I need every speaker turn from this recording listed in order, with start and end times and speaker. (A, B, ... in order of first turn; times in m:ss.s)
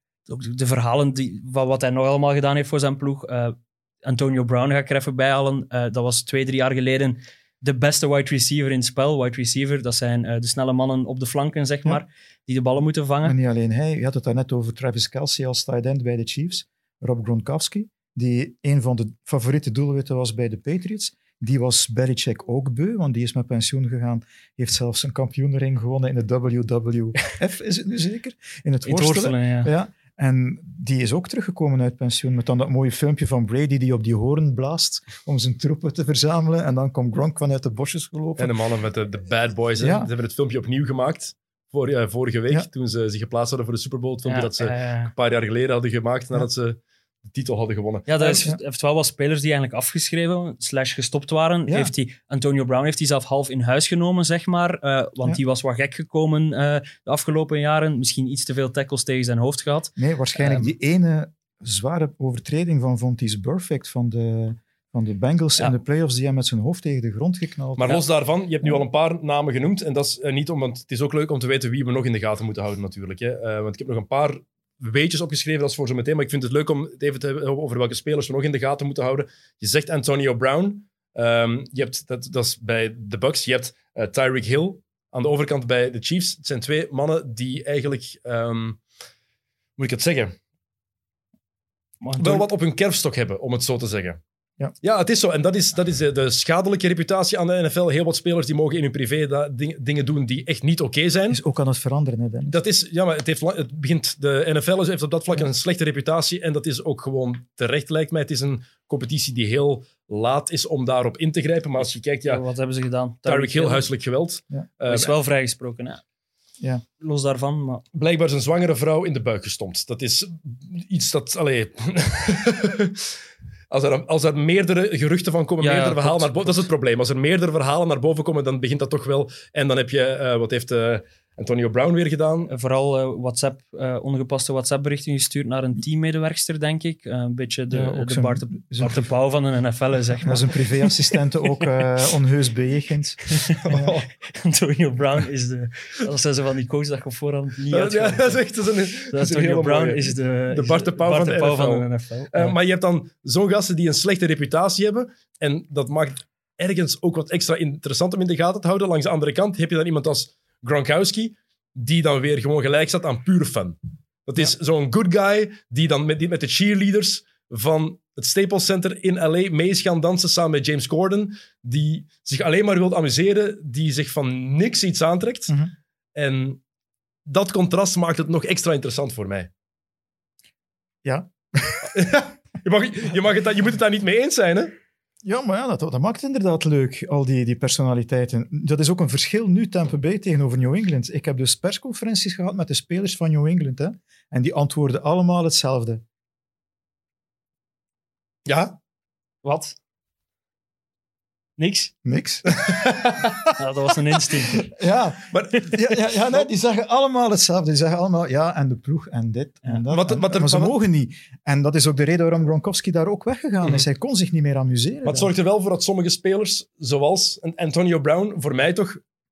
0:00.3-0:13.4 A
0:13.2-0:38.6 B
0:28.8-0:29.7 A
0:38.4-0:48.4 C
0:39.8-0:40.1 B
0:44.3-0:45.1 A
0:48.1-1:00.7 A
1:00.0-1:07.9 B
1:07.8-1:28.8 C
1:29.8-1:30.4 C
1:32.0-1:32.5 A
1:32.2-1:34.2 C
1:34.8-1:41.4 C
1:41.3-1:42.6 B
1:42.5-1:52.4 C
1:52.2-1:53.8 A
1:53.3-1:55.1 C
1:54.9-1:56.0 A
1:57.0-1:57.8 A
1:58.0-2:03.1 C
2:03.7-2:12.5 C
2:05.6-2:06.6 A
2:12.5-2:21.6 A
2:17.7-2:19.0 B
2:20.2-2:23.9 B
2:23.6-2:24.1 C
2:24.3-2:28.4 A
2:27.7-2:55.6 C
2:29.1-2:32.6 A
2:56.2-2:56.6 C
2:57.3-2:59.5 C
3:01.0-3:01.9 B
3:01.9-3:04.7 C
3:05.2-3:16.0 B
3:18.5-3:18.8 C
3:19.4-3:19.8 A
3:21.6-3:21.9 A
3:22.0-3:22.6 B
3:22.5-3:23.5 C
3:23.6-3:24.7 A
3:24.7-3:35.3 B
3:25.3-3:26.4 C
3:29.9-3:30.8 C
3:35.0-3:39.0 C